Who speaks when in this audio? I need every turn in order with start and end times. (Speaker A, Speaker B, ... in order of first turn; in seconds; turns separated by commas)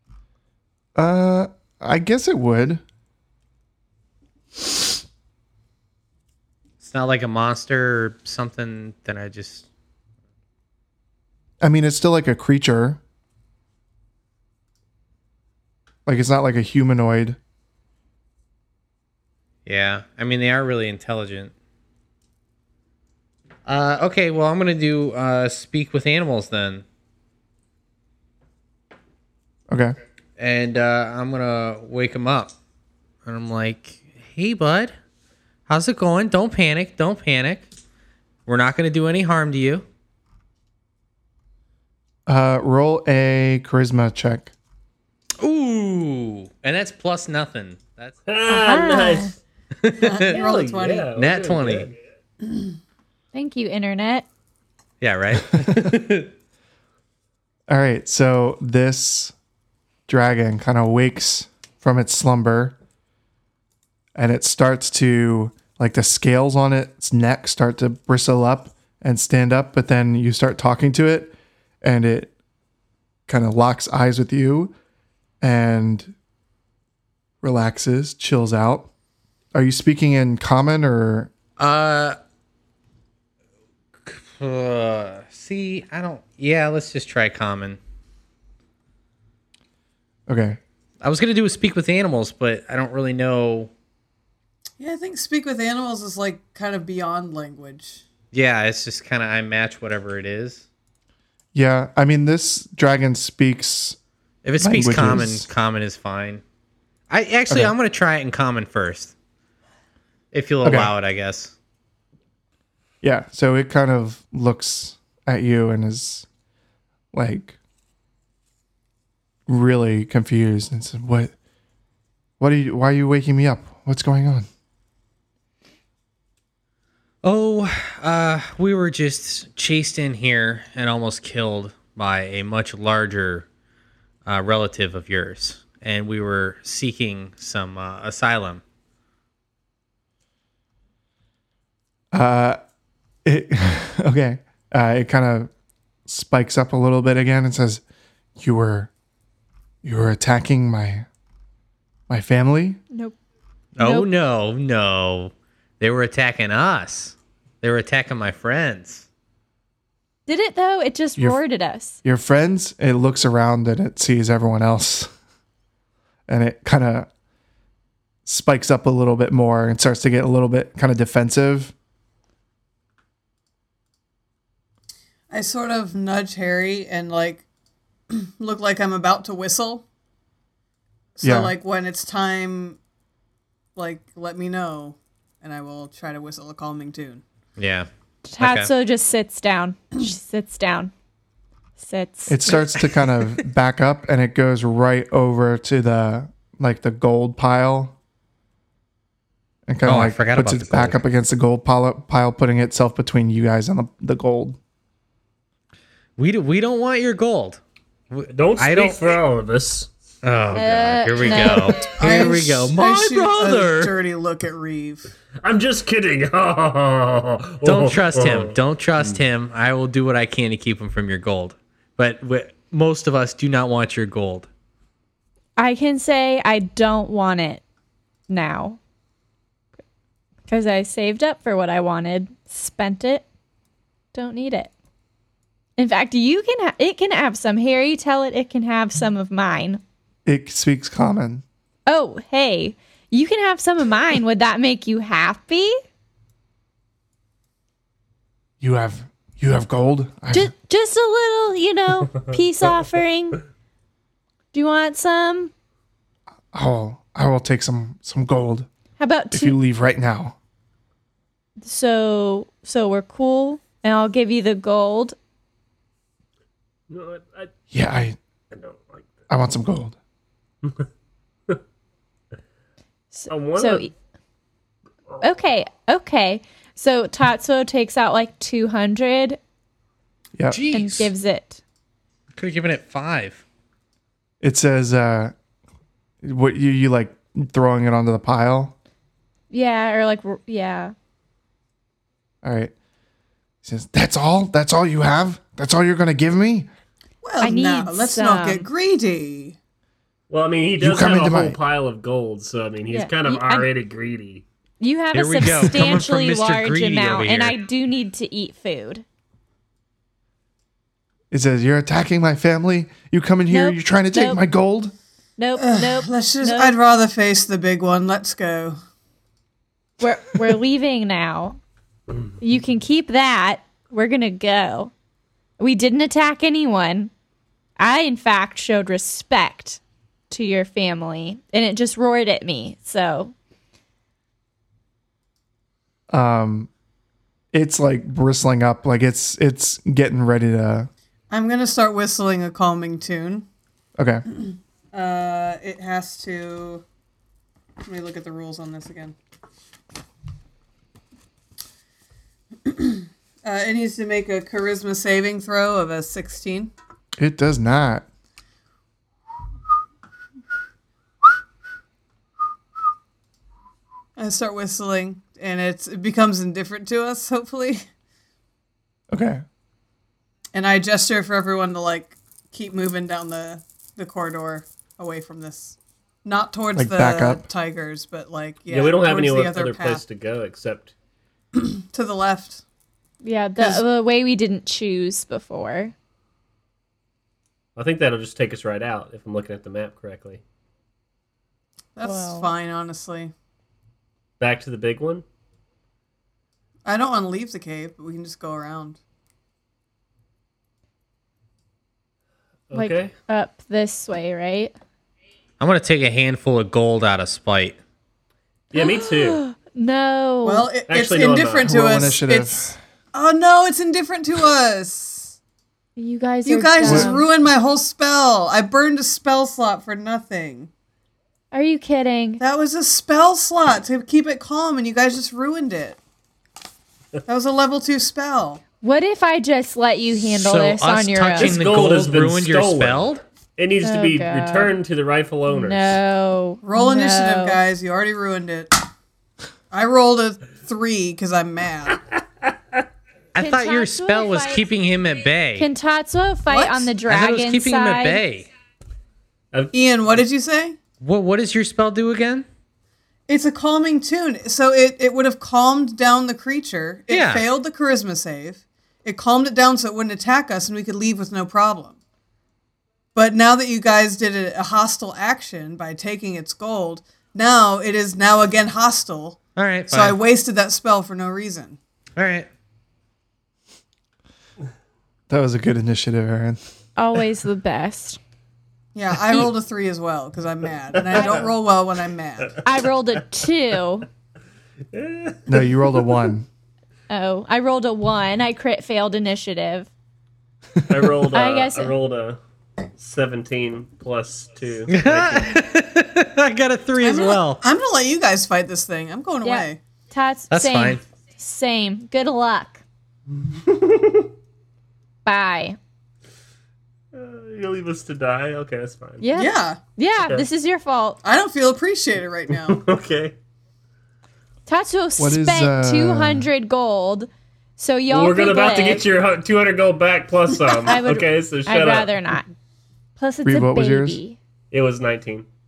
Speaker A: 1.0-2.8, Speaker B: 6.8-9.7, Speaker A: 11.6-13.0, Speaker A: 16.1-17.4, Speaker B: 19.7-21.5, Speaker B: 23.7-26.8, Speaker A: 29.7-30.0, Speaker B: 30.4-32.5, Speaker B: 33.3-34.9, Speaker B: 35.7-37.7, Speaker B: 38.5-39.9, Speaker A: 42.3-44.5, Speaker B: 45.4-48.2, Speaker C: 48.3-49.4, Speaker D: 48.5-49.3, Speaker B: 49.8-50.5, Speaker E: 50.0-51.1, Speaker C: 50.3-52.0, Speaker B: 51.1-51.9, Speaker D: 53.3-54.3, Speaker B: 55.0-56.3, Speaker A: 57.7-59.3, Speaker A: 60.1-62.8, Speaker A: 64.2-72.3, Speaker A: 73.3-74.7, Speaker A: 75.4-76.2, Speaker A: 77.4-78.9, Speaker A: 79.5-81.3, Speaker B: 81.6-82.2, Speaker B: 84.0-87.8, Speaker A: 90.3-90.6, Speaker B: 91.0-93.7, Speaker E: 94.8-98.0, Speaker B: 98.3-100.7, Speaker A: 101.5-104.0, Speaker B: 104.4-106.4, Speaker A: 104.6-105.5, Speaker B: 107.1-109.1, Speaker B: 110.3-111.5, Speaker A: 110.6-110.9, Speaker A: 113.0-116.3, Speaker A: 117.1-117.6, Speaker A: 119.5-121.3, Speaker A: 122.4-124.5, Speaker B: 127.2-133.5, Speaker B: 134.3-138.6, Speaker A: 142.1-142.6, Speaker A: 143.2-145.5, Speaker A: 146.1-147.8, Speaker A: 148.4-148.9, Speaker A: 149.8-151.1, Speaker A: 152.1-152.8, Speaker D: 152.9-153.2, Speaker B: 153.8-159.1, Speaker D: 153.8-154.1, Speaker D: 160.3-162.0, Speaker A: 162.0-165.1, Speaker A: 166.3-167.1, Speaker A: 168.3-171.7, Speaker E: 175.3-177.4, Speaker E: 178.1-179.8, Speaker E: 181.2-182.8, Speaker A: 181.2-181.6, Speaker E: 183.8-187.2, Speaker B: 187.6-188.7, Speaker D: 188.3-190.9, Speaker D: 191.8-192.5, Speaker A: 192.3-197.9, Speaker A: 199.7-204.6, Speaker B: 199.8-201.0, Speaker B: 206.2-207.6, Speaker B: 208.1-209.0, Speaker C: 208.3-209.9, Speaker B: 210.2-213.9, Speaker D: 210.5-211.9, Speaker E: 212.0-215.1, Speaker C: 215.4-219.2, Speaker B: 217.6-224.5, Speaker D: 225.6-227.6, Speaker D: 228.3-228.8, Speaker D: 230.5-233.3, Speaker D: 234.1-234.7, Speaker D: 235.8-239.8, Speaker A: 240.3-241.4, Speaker D: 241.9-245.8, Speaker A: 248.6-250.5, Speaker D: 250.3-253.4, Speaker D: 254.5-255.5, Speaker A: 256.5-258.7, Speaker D: 259.0-259.6, Speaker A: 259.3-260.4, Speaker D: 261.6-265.2, Speaker C: 266.9-267.5, Speaker A: 267.7-268.2, Speaker C: 268.5-269.2, Speaker A: 269.3-270.0, Speaker D: 273.1-273.9, Speaker C: 273.3-273.9, Speaker D: 275.2-279.4, Speaker A: 280.4-280.6, Speaker B: 280.5-281.1, Speaker D: 280.7-281.6, Speaker B: 282.4-283.4, Speaker A: 284.4-285.3, Speaker A: 286.2-288.7, Speaker D: 289.5-290.9, Speaker A: 292.4-292.7, Speaker A: 293.6-296.7, Speaker E: 297.2-299.6, Speaker D: 297.4-298.7, Speaker C: 300.3-304.4, Speaker A: 300.8-301.6, Speaker D: 302.9-303.7, Speaker D: 304.8-309.1, Speaker B: 305.1-307.6, Speaker A: 311.3-314.9, Speaker D: 313.5-314.4, Speaker D: 315.4-316.8, Speaker E: 315.6-318.8, Speaker D: 320.0-321.6, Speaker D: 322.4-324.9, Speaker D: 325.6-327.1, Speaker D: 327.8-333.3, Speaker A: 336.1-336.7, Speaker A: 337.5-340.9, Speaker E: 341.3-343.5, Speaker A: 344.0-344.2, Speaker E: 344.3-346.8, Speaker E: 347.9-349.1, Speaker E: 352.6-356.7, Speaker A: 357.2-358.1, Speaker E: 364.2-367.8, Speaker A: 369.1-369.4, Speaker E: 370.5-380.0, Speaker A: 376.8-377.5, Speaker C: 378.7-380.9, Speaker E: 381.5-382.6, Speaker D: 383.2-385.9, Speaker E: 383.6-383.8, Speaker C: 387.8-390.4, Speaker E: 392.0-393.3, Speaker D: 392.0-392.5, Speaker C: 394.4-395.2, Speaker E: 396.9-399.0, Speaker C: 402.7-403.1, Speaker D: 402.7-404.7, Speaker B: 405.6-407.8, Speaker C: 408.7-409.4, Speaker D: 408.7-410.7, Speaker E: 410.4-415.4, Speaker C: 410.9-412.1, Speaker A: 411.6-412.8, Speaker D: 416.0-417.3, Speaker E: 416.4-420.7, Speaker A: 416.8-417.1, Speaker D: 421.5-422.4, Speaker E: 422.4-426.0, Speaker E: 427.3-428.6, Speaker D: 428.8-431.6, Speaker B: 430.3-433.2, Speaker C: 431.4-436.0, Speaker D: 433.8-434.8, Speaker D: 435.5-437.6, Speaker E: 436.6-438.8, Speaker E: 439.7-442.0, Speaker B: 443.4-445.7, Speaker D: 443.4-444.6, Speaker D: 445.6-448.2, Speaker E: 446.5-446.9, Speaker B: 447.1-448.5, Speaker E: 449.7-450.8, Speaker B: 451.0-452.5, Speaker E: 453.3-462.0, Speaker B: 457.1-457.5, Speaker E: 463.1-469.4, Speaker B: 469.6-470.2, Speaker E: 469.9-471.8, Speaker B: 472.2-472.5, Speaker A: 475.3-476.6, Speaker D: 477.0-478.2, Speaker E: 478.9-482.6, Speaker C: 481.1-481.5, Speaker D: 481.1-481.4, Speaker D: 482.6-484.1, Speaker C: 484.9-485.7, Speaker A: 485.5-486.5, Speaker D: 487.1-489.9, Speaker C: 490.9-492.4, Speaker D: 491.3-491.9, Speaker C: 493.0-495.6, Speaker B: 494.9-497.6, Speaker E: 497.0-499.8, Speaker D: 499.4-502.8, Speaker B: 500.5-501.0, Speaker C: 503.4-504.3, Speaker D: 505.2-505.8, Speaker C: 507.1-509.3, Speaker D: 509.2-511.2, Speaker E: 509.3-509.8, Speaker E: 511.2-512.8, Speaker C: 512.6-513.4, Speaker D: 514.7-519.0, Speaker A: 515.2-516.5, Speaker C: 518.1-522.1, Speaker D: 520.8-522.5, Speaker D: 523.2-524.4, Speaker A: 523.5-524.2, Speaker C: 524.7-525.5